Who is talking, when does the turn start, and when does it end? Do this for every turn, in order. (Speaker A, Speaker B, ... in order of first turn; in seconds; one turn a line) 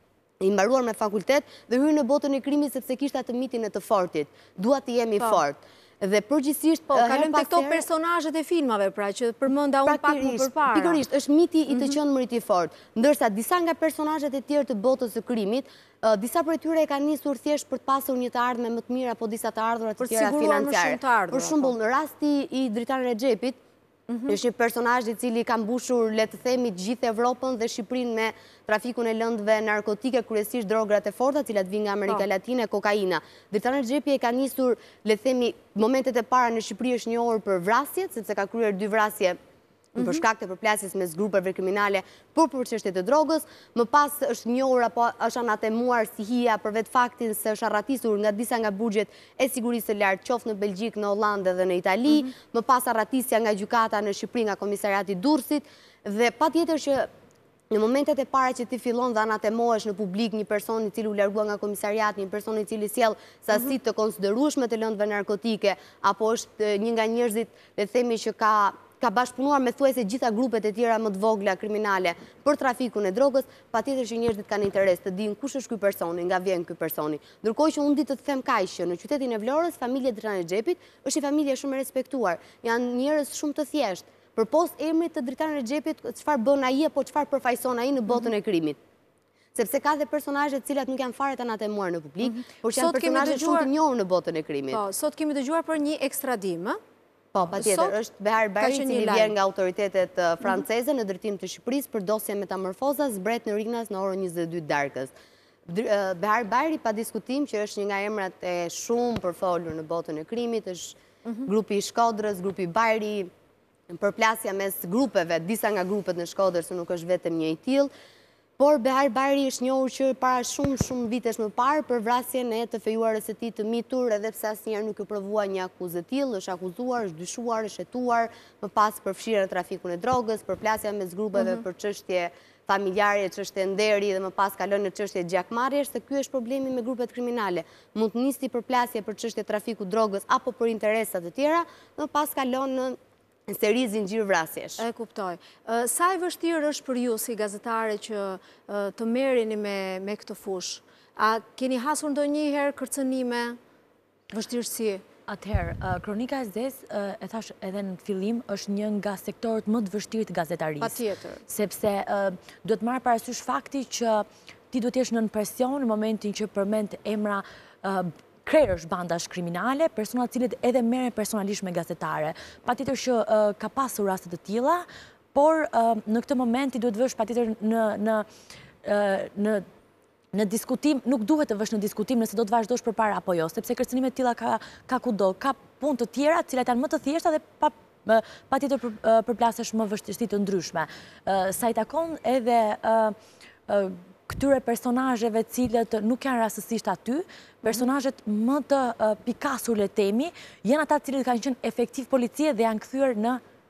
Speaker A: 0.4-7.8
Speaker B: 6.9-11.0
Speaker A: 9.9-23.6
Speaker B: 11.7-12.0
Speaker B: 20.0-21.7
Speaker B: 24.1-24.4
Speaker A: 24.3-39.4
Speaker B: 40.0-40.2
Speaker A: 40.0-57.1
Speaker A: 57.7-88.8
Speaker A: 89.5-94.8
Speaker B: 92.2-93.7
Speaker B: 94.7-96.8
Speaker A: 97.3-105.1
Speaker B: 97.6-98.0
Speaker B: 98.6-99.3
Speaker A: 105.7-113.3
Speaker A: 113.9-117.9
Speaker A: 118.6-143.0
Speaker A: 143.5-144.8
Speaker B: 144.8-153.6
Speaker B: 154.3-155.0
Speaker C: 155.3-178.3
Speaker B: 160.8-161.4
Speaker C: 178.8-179.6
Speaker C: 180.3-193.2
Speaker C: 193.7-203.4